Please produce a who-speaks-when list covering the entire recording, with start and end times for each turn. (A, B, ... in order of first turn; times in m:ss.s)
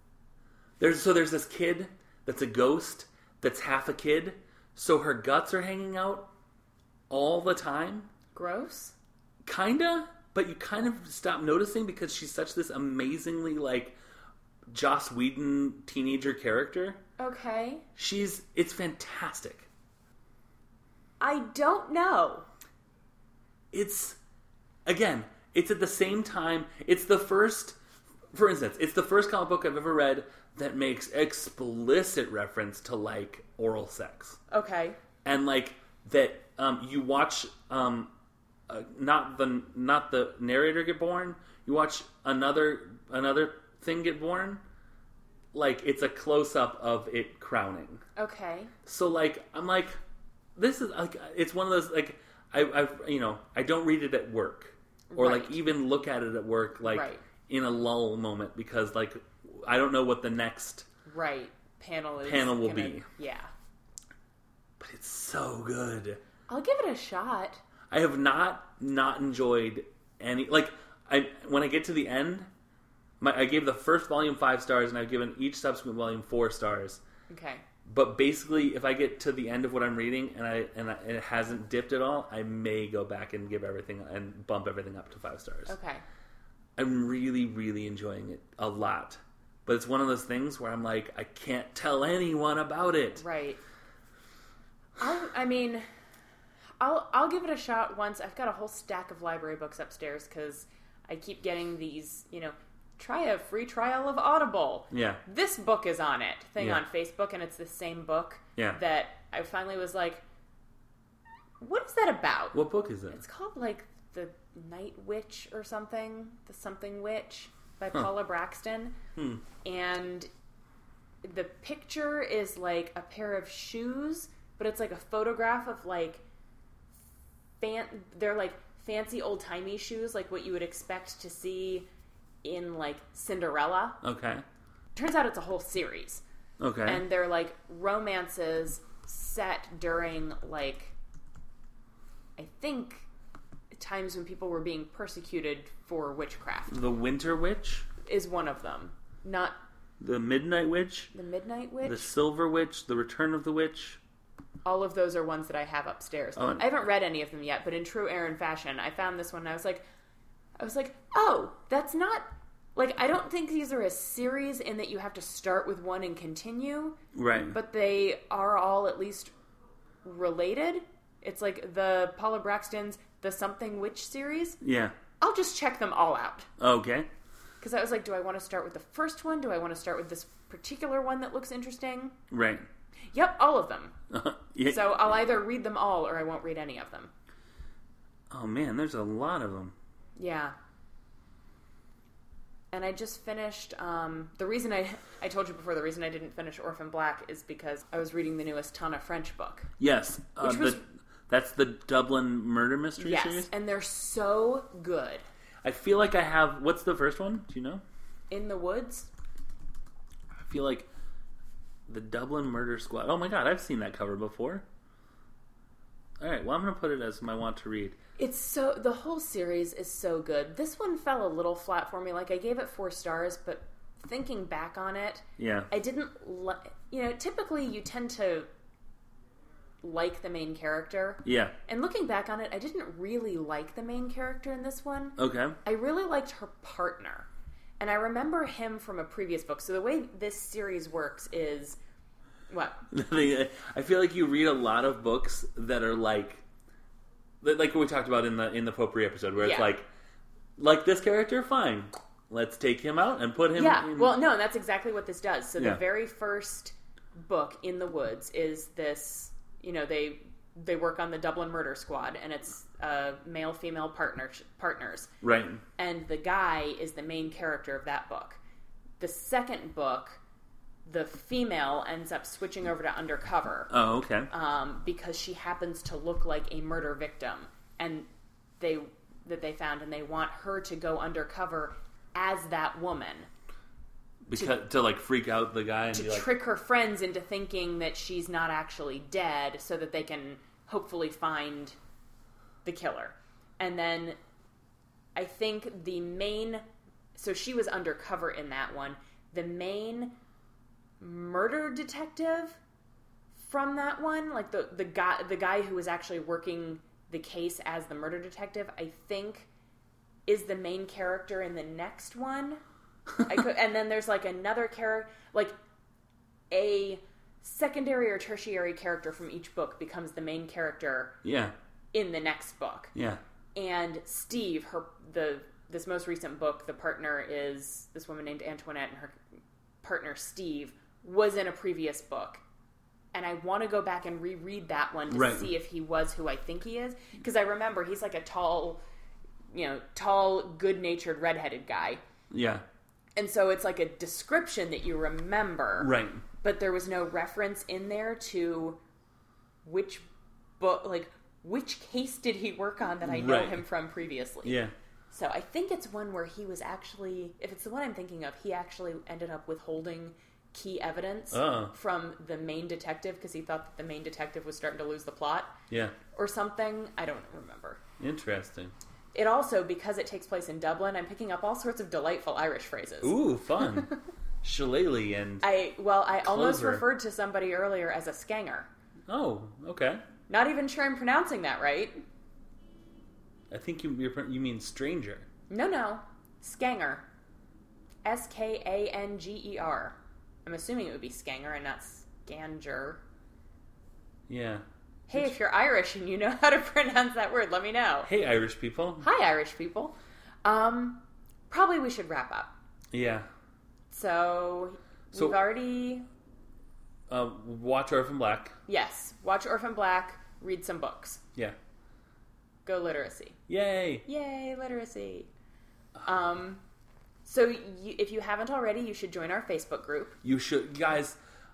0:00.8-0:06.3 A
0:07.1-0:08.1 A
0:08.3-0:08.9 B
0:09.4-0:14.0 A
0:14.7-0:17.0 A
0:17.2-0:17.8 B
0:18.0-0:19.7 A
0:21.2-0:22.5 B
0:23.7-0:24.2 A
0:24.8-0:27.8 A
0:28.3-0:34.4 A
0:34.5-0:35.0 B
0:35.2-0:38.1 A
0:38.7-0:44.6 A
0:45.5-0:48.0 A
0:48.2-0:48.7 B
0:48.8-0:49.9 A
0:50.6-1:00.9 A
0:55.1-0:55.6 B
0:56.8-0:57.2 B
1:01.0-1:03.5 B
1:02.2-1:03.1 A
1:04.8-1:06.2 A
1:06.5-1:07.6 B
1:07.9-1:12.5 A
1:13.2-1:17.0 A
1:17.3-1:17.6 B
1:17.8-1:25.7 A
1:25.7-1:26.0 B
1:26.8-1:33.2 A
1:33.2-1:33.6 B
1:35.0-1:35.8 B
1:36.8-1:50.2 B
1:44.9-1:45.2 A
1:46.6-1:46.8 A
1:51.6-1:52.6 B
1:52.5-1:53.2 A
1:53.1-1:59.0 B
1:59.2-1:59.4 A
1:59.6-2:00.3 B
2:01.2-2:06.2 B
2:07.6-2:11.9 B
2:12.4-2:14.0 B
2:14.0-2:14.4 A
2:14.9-2:16.2 B
2:16.6-2:17.0 A
2:16.8-2:20.9 B
2:22.4-2:23.1 B
2:23.7-2:26.7 B
2:26.7-2:27.9 A
2:28.0-2:29.6 B
2:30.0-2:31.1 A
2:31.1-2:32.1 B
2:31.8-2:34.0 A
2:34.6-2:39.8 B
2:36.4-2:36.7 A
2:40.6-2:49.3 B
2:47.1-2:47.5 A
2:50.0-2:54.6 B
2:54.6-2:54.9 A
2:55.2-2:56.5 B
2:56.6-2:57.1 A
2:57.6-3:02.2 B
3:02.3-3:02.7 A
3:03.1-3:04.0 B
3:04.1-3:04.9 A
3:04.6-3:07.1 B
3:08.3-3:09.7 A
3:10.2-3:10.5 B
3:12.7-3:19.7 B
3:19.8-3:23.5 A
3:20.4-3:20.8 B
3:23.0-3:25.2 B
3:25.6-3:27.8 A
3:28.3-3:29.1 B
3:30.4-3:30.9 A
3:31.9-3:34.6 A
3:36.2-3:38.0 A
3:38.2-3:48.5 B
3:45.4-3:45.7 A
3:49.8-3:57.3 B
3:51.2-3:51.5 A
3:55.2-3:55.6 A
3:57.8-4:01.8 B
4:02.5-4:02.8 B
4:02.9-4:06.4 A
4:07.4-4:09.9 A
4:09.4-4:09.7 B
4:10.6-4:14.2 A
4:13.5-4:25.1 B
4:25.2-4:25.6 A
4:25.8-4:28.4 B
4:29.0-4:30.2 B
4:30.8-4:33.7 B
4:33.7-4:34.3 A
4:34.3-4:38.0 B
4:38.6-4:43.3 B
4:44.3-4:46.3 A
4:45.9-4:51.8 B
4:52.6-4:54.2 B
4:55.2-4:56.6 B
4:57.2-5:00.2 B
5:01.0-5:02.6 B
5:03.3-5:09.5 B
5:10.3-5:12.6 B
5:13.2-5:15.5 B
5:16.5-5:21.2 B
5:21.2-5:21.5 A
5:21.9-5:22.9 B
5:22.9-5:23.2 A
5:23.5-5:29.2 B
5:29.8-5:32.4 B
5:33.1-5:38.8 B
5:35.1-5:35.5 A
5:39.5-5:42.0 B
5:42.3-5:42.6 A
5:43.2-5:48.8 B
5:45.8-5:46.2 A
5:49.6-5:50.0 B
5:50.6-6:05.5 B
5:53.0-5:53.6 A
5:54.4-5:54.7 A
6:01.3-6:01.7 A
6:05.7-6:05.9 A
6:06.1-6:07.8 B
6:08.0-6:08.7 A
6:09.1-6:14.0 B
6:13.0-6:13.9 A
6:14.4-6:15.5 A
6:15.4-6:18.7 B
6:16.2-6:16.8 A
6:19.1-6:20.0 A
6:20.3-6:22.0 B
6:23.5-6:25.3 A
6:25.5-6:27.0 B
6:28.0-6:33.0 B
6:34.3-6:35.3 A
6:35.1-6:38.1 B
6:38.0-6:39.1 A
6:39.0-6:42.5 B
6:42.9-6:43.3 A
6:43.9-6:46.1 B
6:45.1-6:45.4 A
6:47.1-6:48.6 A
6:48.7-6:51.2 B
6:52.6-6:53.4 B
6:53.5-6:54.0 A
6:54.0-6:55.3 B
6:56.0-6:56.6 B
6:57.2-7:00.2 B
7:00.2-7:01.2 A